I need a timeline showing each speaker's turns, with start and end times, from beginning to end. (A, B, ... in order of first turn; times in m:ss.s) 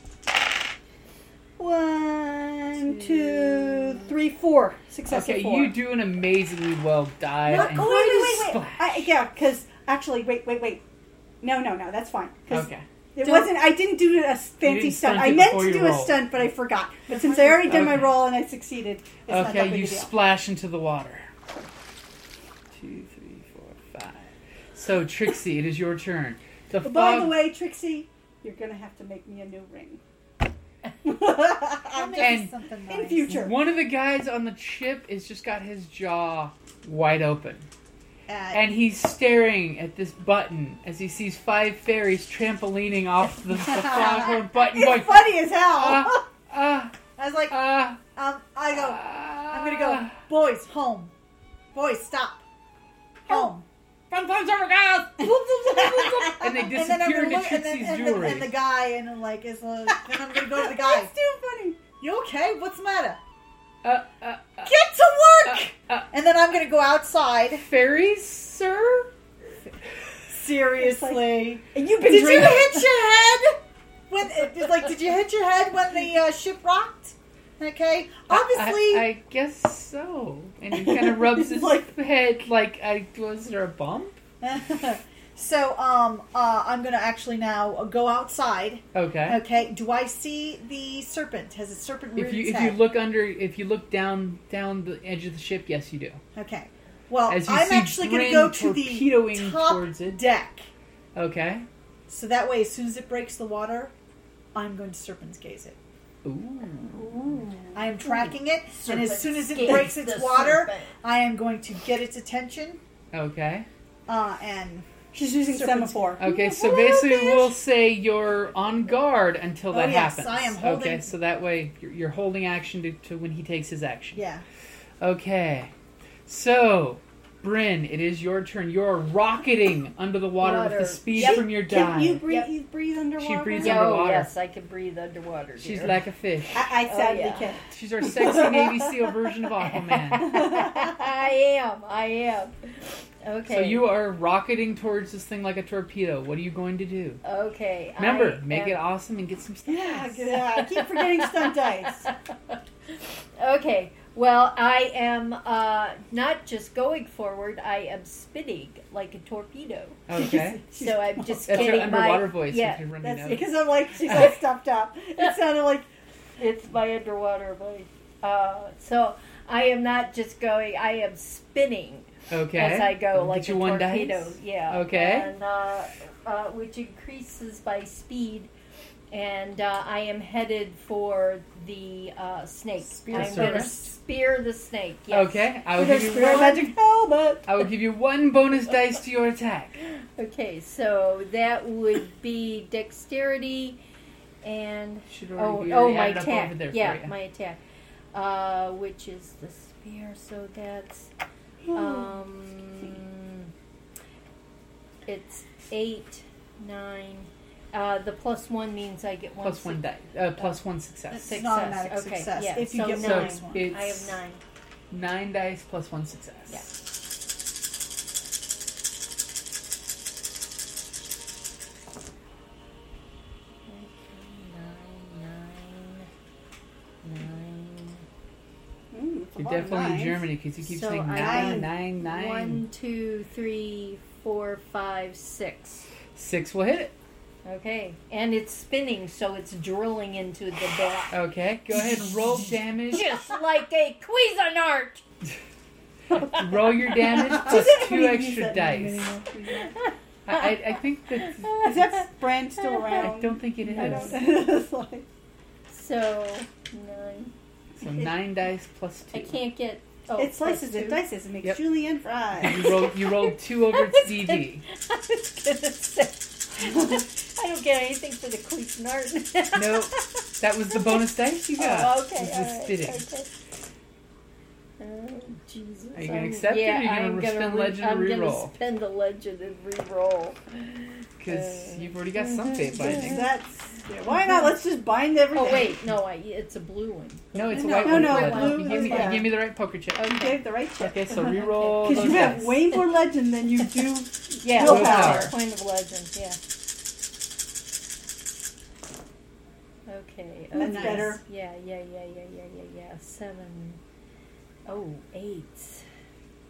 0:01.6-0:05.8 A
0:02.8-0:04.0 B
0:05.1-0:09.1 C
0:07.5-0:10.8 A
0:07.5-0:07.9 B
0:11.4-0:20.1 A
0:12.5-0:13.5 C
0:14.6-0:16.4 C
0:17.1-0:17.9 B
0:17.6-0:18.2 C
0:19.3-0:21.3 C
0:22.7-0:27.4 C
0:26.8-0:30.0 A
0:31.0-0:32.3 A
0:31.8-0:33.4 B
0:32.2-0:32.5 C
0:32.9-0:33.6 A
0:33.3-0:37.7 C
0:38.3-0:38.6 B
0:38.5-0:47.0 C
0:43.9-0:44.4 B
0:43.9-0:46.2 A
0:47.2-0:51.1 B
0:47.5-0:48.0 C
0:48.7-0:50.2 C
0:51.7-0:52.4 B
0:53.3-0:53.7 B
0:54.1-0:58.6 C
0:55.2-1:01.1 B
1:00.7-1:01.8 A
1:02.0-1:03.2 B
1:03.8-1:04.7 C
1:04.6-1:07.7 B
1:05.4-1:06.1 C
1:07.5-1:09.1 C
1:10.3-1:13.6 B
1:10.8-1:12.9 A
1:14.1-1:19.1 B
1:18.3-1:24.2 C
1:20.8-1:21.9 A
1:24.4-1:32.8 B
1:28.9-1:29.4 C
1:32.2-1:36.2 C
1:36.3-1:40.7 B
1:37.3-1:40.2 C
1:41.2-1:41.7 C
1:42.1-1:43.9 B
1:44.5-1:45.8 B
1:46.2-1:47.1 C
1:47.1-1:48.1 D
1:47.7-1:52.8 B
1:48.7-1:50.9 D
1:53.1-1:53.7 C
1:54.1-1:56.2 B
1:55.1-1:57.4 A
1:56.2-2:04.2 C
1:59.7-2:01.1 B
2:04.2-2:04.4 B
2:05.0-2:05.7 C
2:06.3-2:12.2 C
2:10.4-2:11.5 D
2:11.1-2:14.0 A
2:12.3-2:12.5 D
2:13.2-2:14.3 C
2:13.6-2:16.0 D
2:15.6-2:16.7 C
2:16.5-2:17.6 A
2:16.9-2:17.6 D
2:17.7-2:20.4 C
2:18.2-2:18.7 A
2:19.7-2:23.9 D
2:20.2-2:21.0 A
2:23.5-2:27.2 C
2:27.2-2:28.8 D
2:28.0-2:30.4 C
2:29.7-2:32.1 A
2:30.6-2:32.6 D
2:33.4-2:40.1 D
2:40.1-2:40.6 C
2:40.1-2:42.0 A
2:40.7-2:42.9 D
2:41.5-2:44.4 C
2:43.0-2:45.9 A
2:46.4-2:58.5 D
2:52.3-2:55.3 C
2:59.1-3:05.5 D
3:03.0-3:03.9 C
3:03.1-3:03.7 B
3:05.1-3:06.7 C
3:05.8-3:07.4 A
3:07.5-3:09.8 C
3:10.2-3:13.8 D
3:14.4-3:17.6 D
3:15.1-3:17.1 C
3:18.1-3:21.1 D
3:21.7-3:22.1 A
3:21.7-3:23.5 D
3:25.1-3:29.8 D
3:29.4-3:31.4 C
3:31.1-3:33.7 B
3:31.2-3:34.4 D
3:32.8-3:34.2 C
3:34.9-3:36.6 C
3:43.7-3:46.1 D
3:47.0-3:48.0 D
3:48.9-3:50.3 A
3:49.4-3:52.6 C
3:50.6-3:55.9 D
3:51.2-3:51.7 B
3:56.2-3:56.9 C
3:57.4-4:01.2 D
4:01.1-4:03.2 C
4:02.9-4:05.0 D
4:06.2-4:09.2 C
4:07.1-4:09.8 A
4:09.8-4:12.0 D
4:10.3-4:11.6 C
4:11.6-4:15.1 A
4:12.6-4:14.2 D
4:13.0-4:14.3 C
4:15.7-4:17.3 D
4:17.8-4:19.4 C
4:19.1-4:21.0 D
4:20.2-4:22.7 A
4:21.4-4:21.7 C
4:22.4-4:24.6 C
4:22.4-4:30.0 D
4:29.6-4:33.0 C
4:30.7-4:31.0 D
4:31.6-4:33.3 D
4:34.8-4:43.3 D
4:36.0-4:38.5 C
4:41.2-4:43.3 C
4:42.8-4:45.8 A
4:44.1-4:44.5 D
4:45.3-4:49.4 D
4:47.3-4:52.8 C
4:47.5-4:48.2 B
4:47.6-4:49.4 A
4:50.0-4:50.4 D
4:50.0-4:55.4 A
4:51.3-4:52.4 D
4:54.4-4:56.4 D
4:54.6-4:55.3 C
4:59.9-5:03.8 D
5:00.6-5:01.2 A
5:00.6-5:01.2 B
5:04.7-5:05.8 D